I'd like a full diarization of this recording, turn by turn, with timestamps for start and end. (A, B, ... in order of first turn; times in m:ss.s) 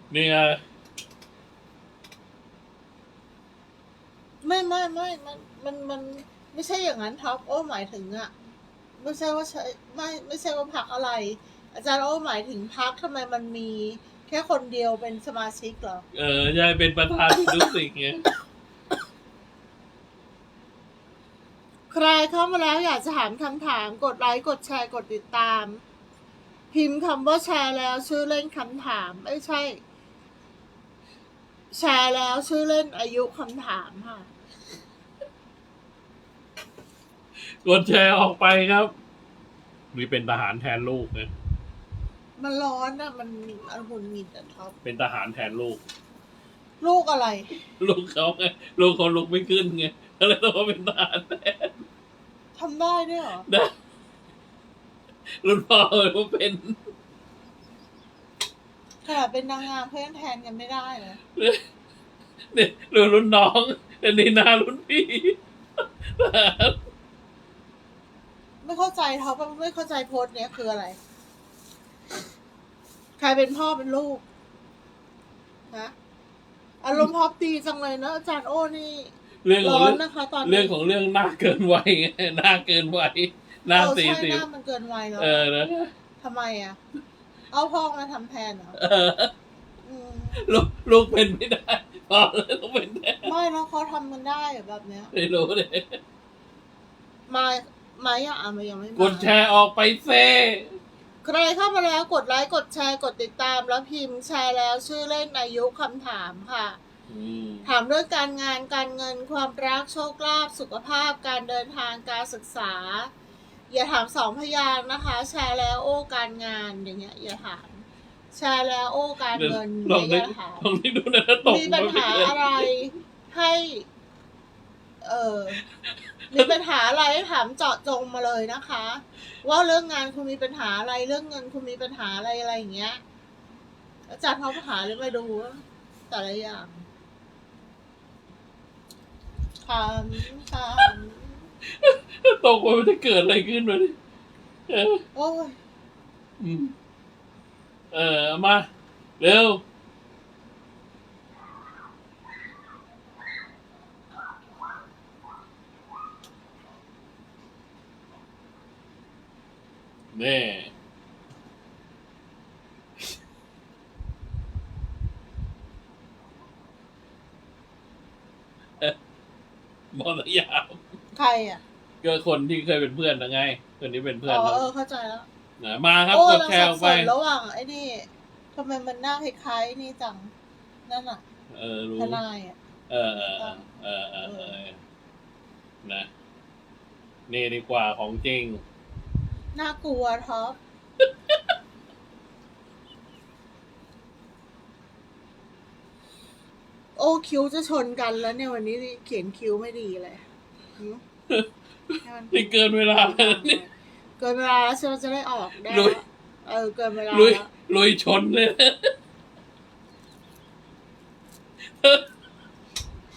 0:00.1-0:00.6 A
0:04.4-0:08.3 B
0:09.0-0:16.0 B
0:16.1-0:18.3 A
0:21.9-0:25.8 B
0:26.7-0:29.8 B
0:31.7-0:34.3 B
0:37.4-0:38.9 A
0:39.9-0:41.3 A
0:42.4-0:44.8 B
0:44.8-0:45.8 A
0:46.8-0:47.6 B
0:47.8-0:51.8 A
0:52.5-0:53.5 B
0:55.4-0:56.8 A
0:59.0-1:01.2 B
1:02.5-1:05.4 A
1:06.0-1:06.8 A
1:08.6-1:11.0 B
1:13.2-1:14.2 B
1:16.8-1:20.7 B
1:19.4-1:24.5 A
1:23.7-1:25.5 B
1:25.2-1:25.9 A
1:26.2-1:26.8 B
1:27.5-1:28.8 B
1:28.8-1:29.3 A
1:29.8-1:30.4 B
1:30.3-1:33.3 A
1:33.2-1:35.1 B
1:35.1-1:36.0 A
1:37.3-1:39.3 B
1:39.0-1:40.8 A
1:41.2-1:46.8 B
1:47.1-1:47.7 A
1:47.6-1:53.1 B
1:53.7-2:00.6 B
1:59.3-2:02.7 A
2:01.4-2:03.9 B
2:05.0-2:05.6 B
2:05.8-2:06.5 A
2:06.3-2:13.0 B
2:14.1-2:16.8 B
2:19.6-2:21.4 B
2:21.6-2:24.0 A
2:24.7-2:25.0 A
2:25.1-2:25.6 B
2:26.4-2:26.7 A
2:27.9-2:28.7 A
2:29.2-2:29.6 A
2:40.1-2:40.7 A
2:49.9-2:50.8 A
2:51.1-2:51.6 B
2:52.0-2:54.7 A
2:54.2-2:55.3 B
2:55.6-2:57.1 A
2:56.1-3:00.3 B
3:00.9-3:01.2 B
3:01.5-3:02.2 A
3:02.0-3:02.6 B
3:02.9-3:04.8 A
3:03.2-3:03.6 B
3:04.2-3:04.6 B
3:07.3-3:08.6 A
3:09.5-3:10.6 B
3:11.0-3:11.4 A
3:17.0-3:20.2 B
3:21.3-3:23.6 A
3:22.0-3:27.5 B
3:25.6-3:26.0 A
3:27.1-3:28.9 A